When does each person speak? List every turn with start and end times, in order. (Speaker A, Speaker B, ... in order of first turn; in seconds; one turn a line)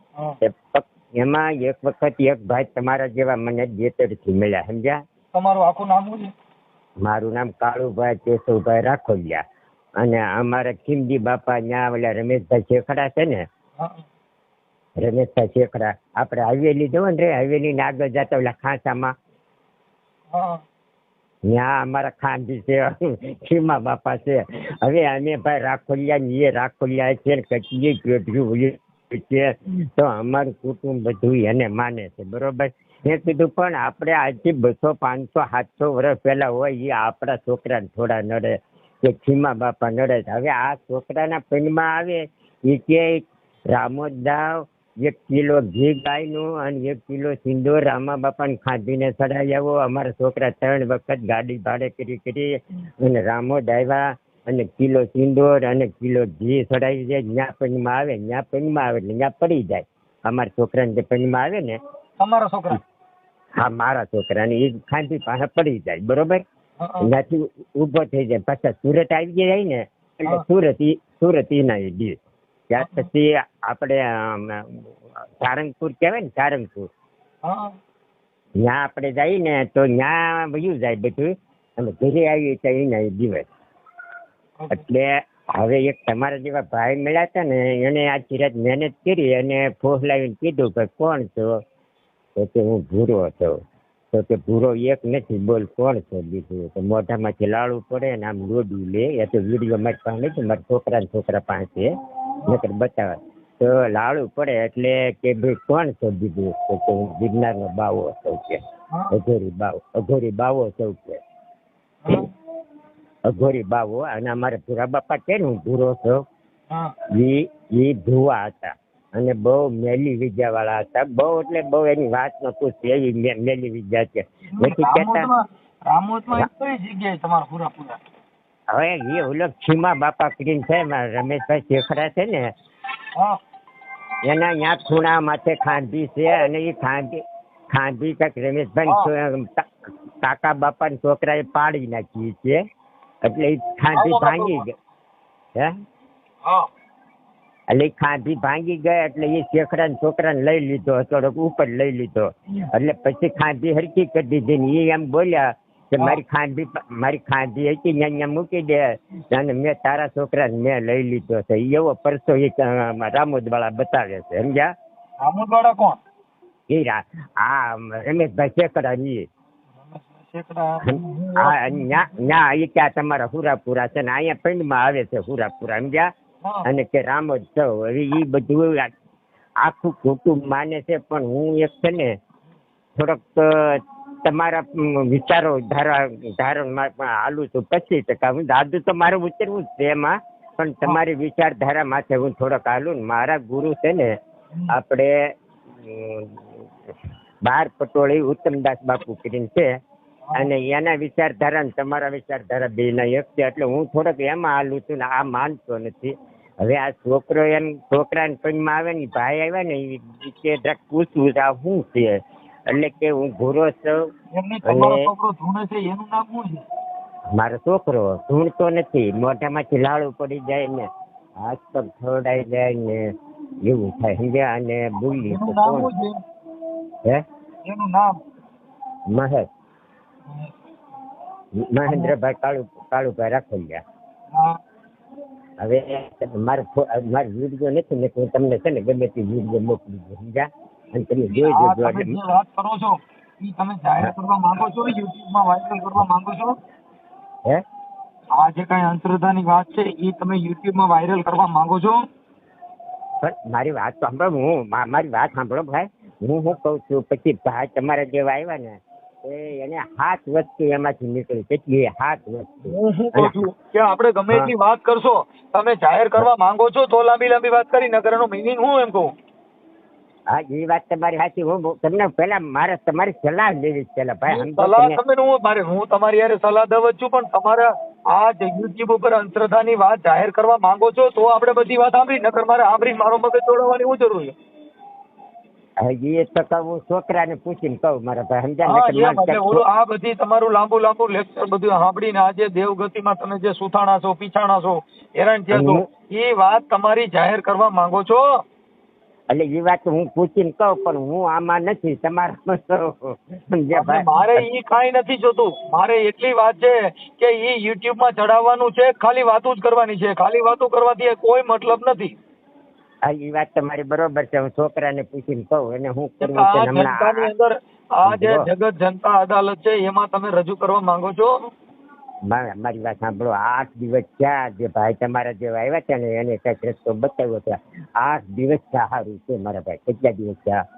Speaker A: 0.4-5.0
Speaker B: 5.3-6.3
Speaker A: 7.0-9.4
Speaker A: 10.0-13.4
Speaker B: 13.8-14.1
Speaker A: 15.0-19.1
Speaker B: 20.3-20.6
Speaker A: 21.5-61.8
Speaker B: 62.2-62.8
Speaker A: 63.6-66.4
Speaker B: 66.8-67.1
Speaker A: 67.0-72.2
Speaker A: 72.7-76.9
Speaker B: 72.8-73.1
Speaker B: 77.5-77.7
Speaker A: 78.6-83.4
Speaker B: 84.6-84.8
Speaker A: 84.7-91.5
Speaker A: 92.4-93.5
Speaker A: 94.1-101.9
Speaker A: 102.4-108.6
Speaker A: 109.1-111.2
Speaker B: 112.0-112.3
Speaker A: 113.3-116.2
Speaker A: 117.2-125.2
Speaker B: 124.6-128.0
Speaker A: 128.7-132.5
Speaker A: 134.2-139.7
Speaker A: 140.2-142.6
Speaker A: 143.2-144.7
Speaker B: 144.0-144.6
Speaker A: 147.7-164.7
Speaker B: 165.2-166.0
Speaker A: 166.7-169.2
Speaker B: 169.8-172.1
Speaker A: 170.8-176.1
Speaker A: 176.6-178.9
Speaker A: 179.6-182.2
Speaker A: 183.0-194.1
Speaker A: 194.7-195.1
Speaker A: 195.8-196.5
Speaker A: 197.5-199.7
Speaker A: 200.3-206.1
Speaker A: 206.6-212.2
Speaker A: 212.7-214.0
Speaker B: 214.4-216.6
Speaker A: 214.6-215.1
Speaker A: 217.3-220.9
Speaker A: 221.4-223.1
Speaker A: 223.7-225.9
Speaker B: 225.1-226.2
Speaker B: 227.7-228.2
Speaker A: 229.1-229.5
Speaker A: 231.6-233.8
Speaker B: 231.9-232.1
Speaker B: 234.3-234.6
Speaker A: 235.6-242.2
Speaker B: 241.2-246.6
Speaker B: 248.4-252.0
Speaker A: 253.2-263.4
Speaker B: 262.7-269.1
Speaker A: 270.3-275.0
Speaker B: 274.3-284.3
Speaker A: 285.8-289.6
Speaker B: 288.7-298.2
Speaker A: 295.5-295.8
Speaker A: 299.3-304.4
Speaker B: 303.7-312.1
Speaker A: 313.1-317.3
Speaker B: 316.2-321.3
Speaker A: 318.1-318.4
Speaker A: 322.3-330.6